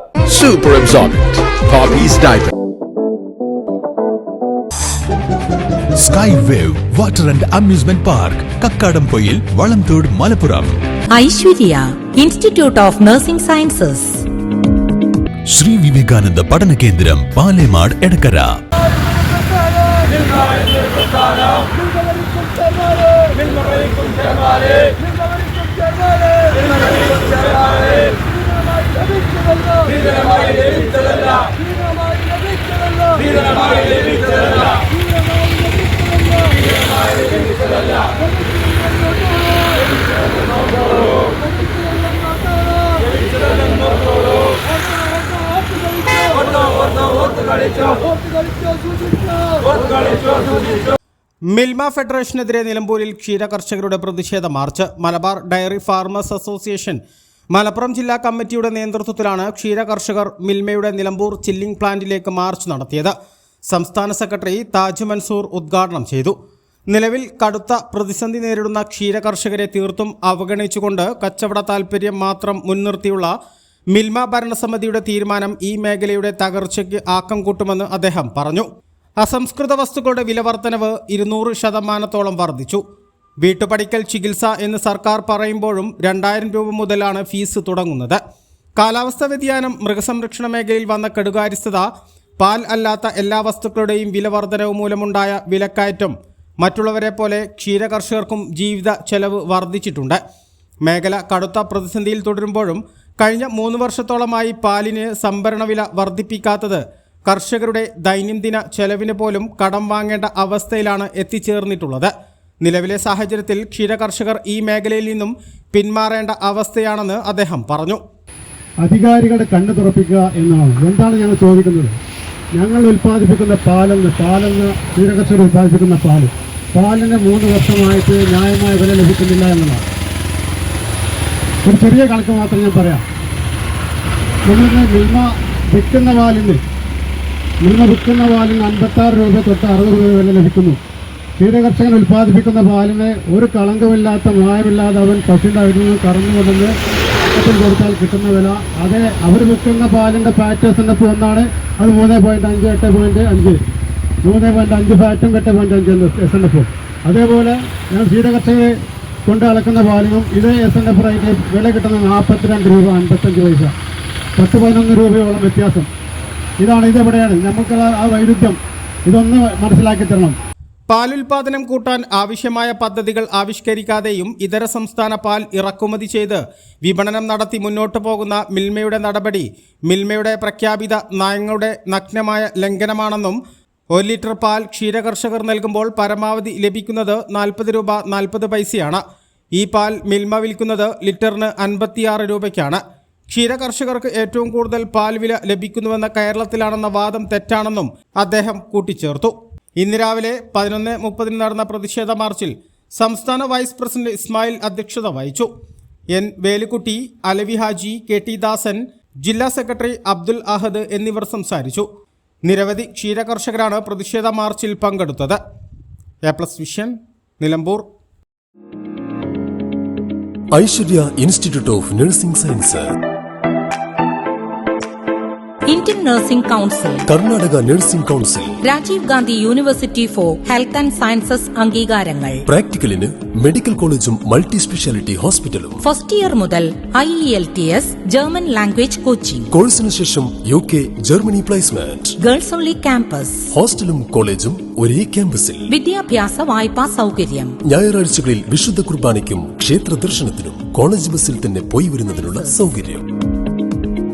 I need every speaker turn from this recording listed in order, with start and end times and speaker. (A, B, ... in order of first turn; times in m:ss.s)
0:00.3-0:02.5 A
0:06.0-0:10.8 A
0:11.1-0:14.2 B
0:15.5-0:18.5 A
0:51.5-0:57.0 C
0:57.5-1:03.1 C
1:03.7-1:06.3 C
1:06.9-1:13.3 C
1:13.9-1:18.6 C
1:19.2-1:22.8 C
1:23.4-1:28.2 C
1:28.8-1:31.9 C
1:32.4-1:40.2 C
1:40.8-1:58.0 C
1:58.8-2:02.0 D
2:02.5-2:09.8 D
2:11.6-2:13.0 D
2:14.4-2:16.6 D
2:17.6-2:20.8 D
2:21.4-2:26.8 D
2:27.3-2:33.6 D
2:34.2-2:43.7 D
2:44.4-2:45.9 D
2:46.6-2:50.4 D
2:50.9-3:03.4 C
3:03.9-3:09.0 C
3:09.5-3:25.5 C
3:26.1-3:31.8 C
3:32.4-3:35.4 C
3:36.2-3:37.8 C
3:40.5-3:42.9 E
3:45.7-3:47.1 B
3:47.1-3:48.5 E
3:48.6-3:52.4 B
3:52.5-3:55.8 E
3:55.8-3:59.5 B
3:59.5-4:02.1 E
4:02.2-4:03.5 B
4:03.5-4:05.7 E
4:05.7-4:07.6 B
4:07.7-4:13.0 E
4:12.3-4:12.8 B